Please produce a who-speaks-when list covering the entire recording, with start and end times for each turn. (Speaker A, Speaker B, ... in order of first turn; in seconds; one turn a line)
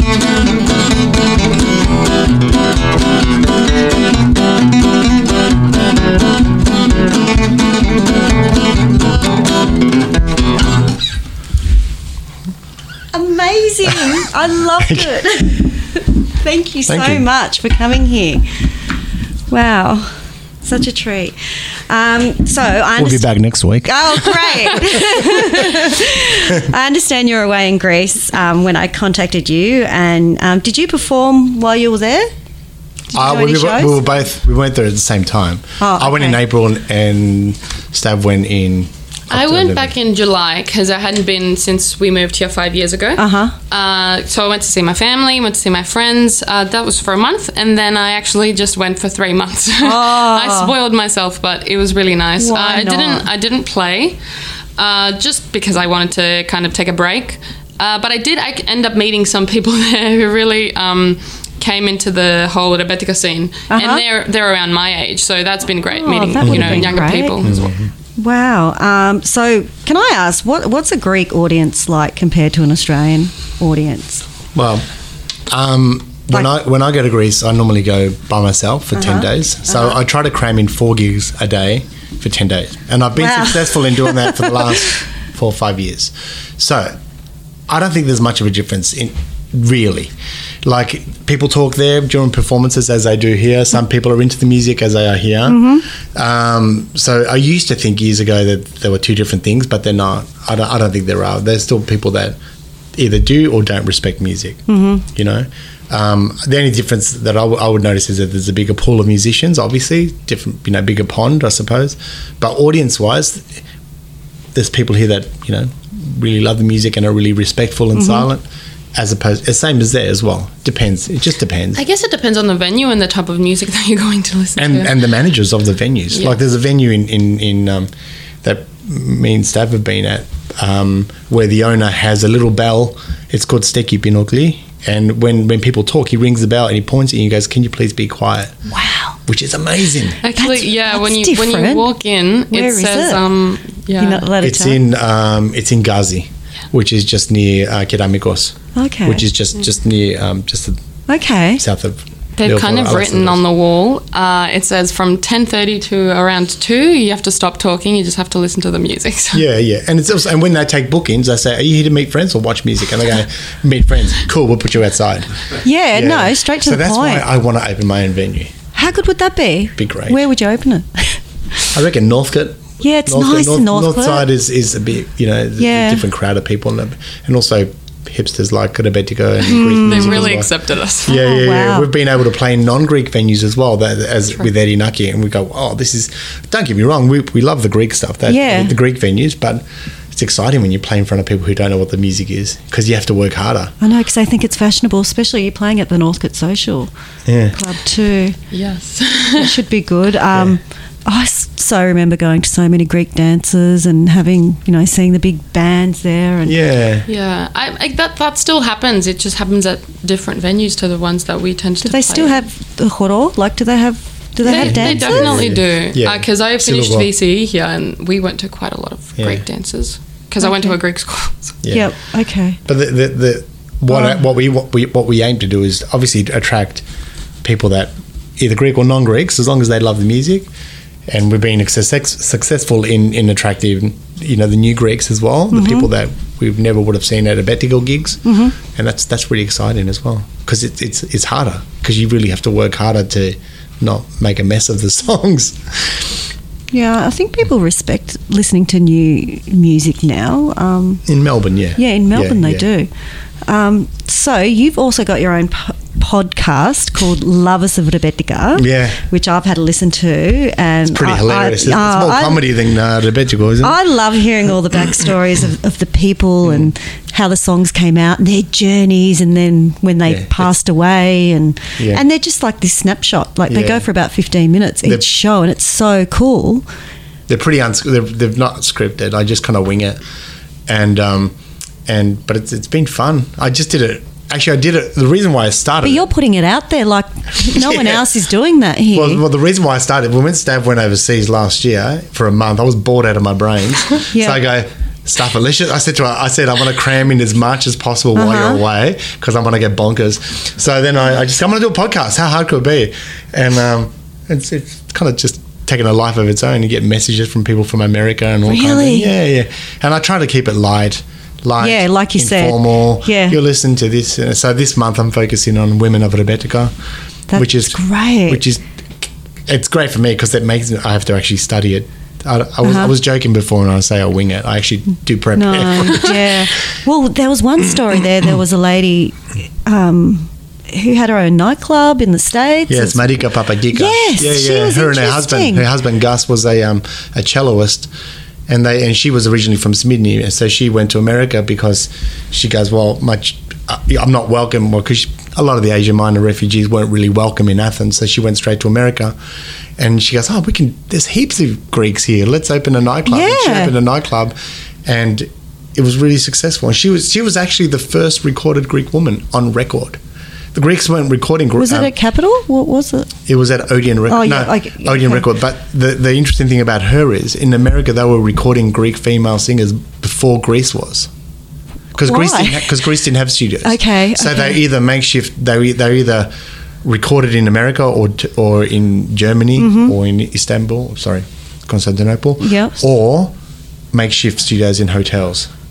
Speaker A: 13.1-18.4
Speaker B: 13.8-14.1
Speaker B: 14.8-15.2
Speaker B: 16.8-17.2
Speaker A: 19.5-23.2
Speaker B: 22.9-25.8
Speaker A: 23.8-32.3
Speaker A: 33.1-34.1
Speaker B: 33.1-39.9
Speaker A: 35.8-36.4
Speaker C: 39.3-54.2
Speaker A: 43.2-43.5
Speaker A: 49.8-50.7
Speaker A: 52.4-53.2
Speaker C: 54.8-67.7
Speaker A: 63.7-64.0
Speaker A: 65.9-67.6
Speaker B: 66.4-67.9
Speaker A: 68.2-74.2
Speaker B: 74.5-74.8
Speaker B: 75.5-87.0
Speaker A: 78.9-80.0
Speaker A: 83.2-84.9
Speaker B: 87.7-90.1
Speaker B: 90.6-102.4
Speaker A: 95.5-95.8
Speaker B: 102.9-113.6
Speaker A: 104.7-105.0
Speaker B: 114.5-118.4
Speaker A: 118.0-118.2
Speaker B: 118.9-121.8
Speaker C: 121.7-124.9
Speaker B: 124.6-127.9
Speaker B: 128.4-138.6
Speaker A: 138.7-139.2
Speaker B: 139.2-140.2
Speaker C: 140.2-144.3
Speaker A: 140.3-141.9
Speaker A: 142.5-143.2
Speaker A: 144.0-144.8
Speaker B: 144.4-150.8
Speaker A: 148.7-149.2
Speaker A: 151.1-151.6
Speaker B: 151.6-153.4
Speaker C: 152.4-159.4
Speaker B: 159.3-168.5
Speaker A: 165.6-167.2
Speaker A: 168.7-171.2
Speaker B: 169.8-170.2
Speaker B: 171.7-180.5
Speaker A: 172.8-174.2
Speaker A: 175.6-176.0
Speaker A: 179.4-180.3
Speaker C: 179.8-181.2
Speaker B: 181.1-193.7
Speaker A: 181.1-181.9
Speaker A: 188.3-188.7
Speaker A: 193.8-196.9
Speaker B: 197.2-197.6
Speaker A: 197.5-198.4
Speaker C: 198.5-199.5
Speaker A: 199.3-206.6
Speaker B: 200.3-200.6
Speaker B: 206.4-207.1
Speaker C: 207.1-212.4
Speaker A: 211.8-215.5
Speaker C: 214.4-221.5
Speaker B: 214.5-217.1
Speaker B: 219.2-219.4
Speaker A: 220.4-220.7
Speaker B: 221.6-221.9
Speaker A: 221.7-222.6
Speaker B: 222.6-226.8
Speaker A: 223.9-224.2
Speaker B: 227.4-230.5
Speaker B: 231.1-246.2
Speaker A: 235.5-235.9
Speaker A: 238.2-238.5
Speaker A: 246.7-251.0
Speaker B: 251.1-252.7
Speaker A: 251.8-252.9
Speaker A: 253.5-262.4
Speaker B: 258.6-259.0
Speaker B: 260.9-263.8
Speaker A: 263.6-276.6
Speaker B: 266.4-266.7
Speaker B: 270.0-270.5
Speaker B: 271.8-272.0
Speaker B: 273.5-273.8
Speaker B: 277.3-280.0
Speaker B: 280.7-281.4
Speaker B: 281.9-286.1
Speaker A: 285.8-289.2
Speaker B: 287.4-288.0
Speaker B: 288.9-316.7
Speaker A: 294.1-294.4
Speaker A: 298.1-298.6
Speaker A: 308.5-309.1
Speaker A: 311.6-313.4
Speaker A: 317.3-318.4
Speaker B: 317.4-326.5
Speaker A: 322.6-322.9
Speaker A: 325.4-333.1
Speaker B: 332.7-337.9
Speaker A: 333.7-335.6
Speaker B: 338.5-349.1
Speaker B: 349.8-360.0
Speaker A: 353.1-353.7
Speaker B: 360.5-361.9
Speaker A: 361.6-363.1
Speaker B: 363.3-371.1
Speaker A: 364.1-365.2
Speaker B: 371.9-376.3
Speaker A: 372.0-372.7
Speaker A: 373.6-374.6
Speaker B: 376.8-383.3
Speaker A: 379.6-379.9
Speaker A: 382.4-382.8
Speaker B: 383.9-385.5